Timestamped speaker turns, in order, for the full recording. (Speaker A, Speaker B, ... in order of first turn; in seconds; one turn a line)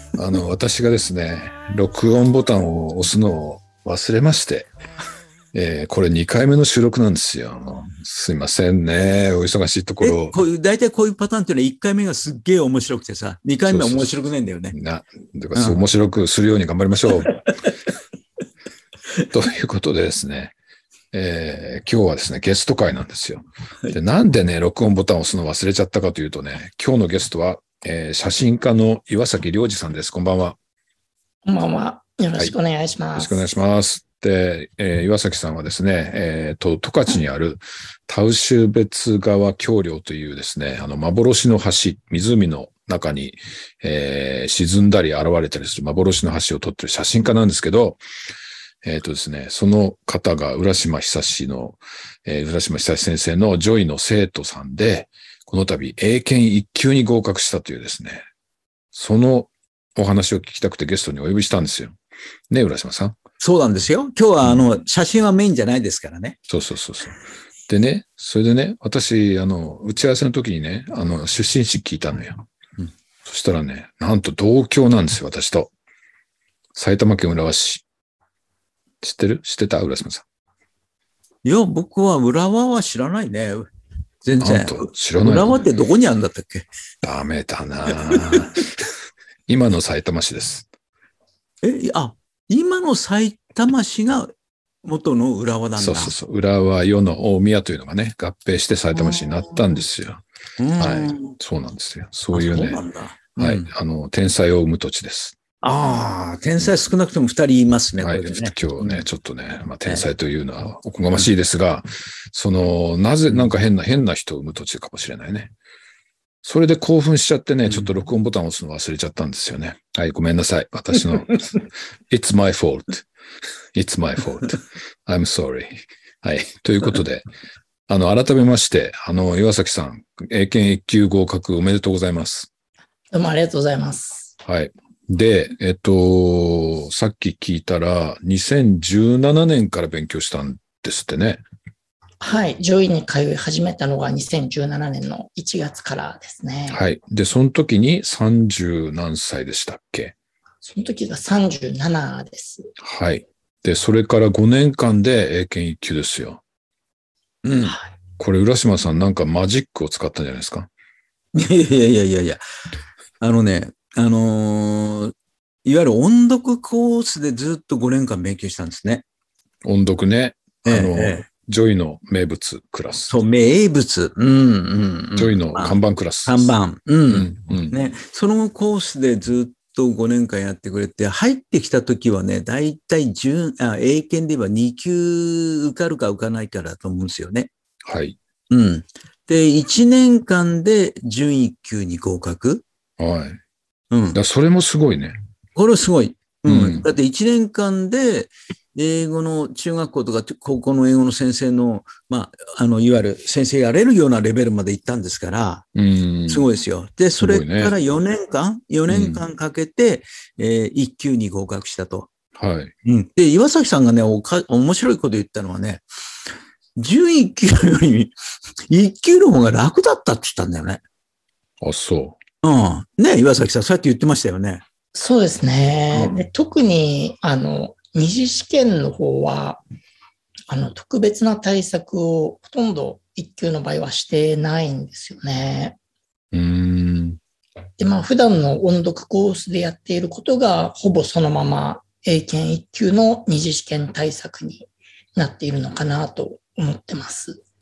Speaker A: 0.1-4.7
Speaker A: 5.5-10.4
Speaker B: 10.0-14.8
Speaker A: 13.7-14.1
Speaker A: 14.7-17.5
Speaker B: 15.6-15.8
Speaker B: 17.2-17.7
Speaker A: 19.3-20.6
Speaker A: 21.1-30.6
Speaker C: 31.4-33.5
Speaker A: 33.2-48.0
Speaker A: 48.8-58.2
Speaker A: 58.9-62.0
Speaker A: 62.5-63.2
Speaker B: 63.4-66.4
Speaker A: 66.5-67.2
Speaker A: 67.7-72.5
Speaker A: 73.2-75.7
Speaker A: 76.8-77.8
Speaker A: 79.0-80.2
Speaker B: 81.4-83.7
Speaker B: 84.2-86.7
Speaker A: 84.4-85.6
Speaker A: 87.0-88.7
Speaker B: 88.1-88.6
Speaker A: 89.5-90.7
Speaker B: 91.6-94.3
Speaker B: 94.8-96.1
Speaker A: 95.8-100.2
Speaker B: 99.0-99.5
Speaker B: 100.6-101.4
Speaker A: 100.8-102.8
Speaker B: 102.3-103.7
Speaker A: 103.4-105.4
Speaker B: 105.6-109.0
Speaker A: 108.0-115.5
Speaker A: 116.4-123.1
Speaker A: 123.7-127.3
Speaker A: 127.9-132.5
Speaker C: 133.1-134.3
Speaker A: 134.4-141.4
Speaker C: 142.2-146.8
Speaker A: 146.7-150.2
Speaker C: 150.6-152.7
Speaker A: 152.8-156.4
Speaker B: 157.4-157.8
Speaker A: 158.2-160.7
Speaker B: 161.3-162.4
Speaker B: 163.2-165.1
Speaker B: 165.7-169.0
Speaker A: 169.6-173.2
Speaker B: 170.7-171.3
Speaker B: 173.1-187.5
Speaker A: 175.2-176.5
Speaker A: 177.1-177.8
Speaker A: 187.8-188.2
Speaker B: 188.5-192.7
Speaker A: 193.0-193.4
Speaker B: 193.9-194.2
Speaker A: 194.1-195.2
Speaker B: 195.6-205.7
Speaker A: 196.5-196.9
Speaker A: 205.8-206.4
Speaker B: 206.3-212.1
Speaker A: 207.2-207.8
Speaker A: 208.9-209.2
Speaker A: 212.3-212.7
Speaker B: 212.8-215.8
Speaker B: 216.8-218.2
Speaker B: 218.7-220.8
Speaker A: 221.6-222.2
Speaker B: 222.4-224.6
Speaker C: 224.9-229.6
Speaker C: 230.5-235.8
Speaker A: 236.3-237.2
Speaker C: 237.8-247.4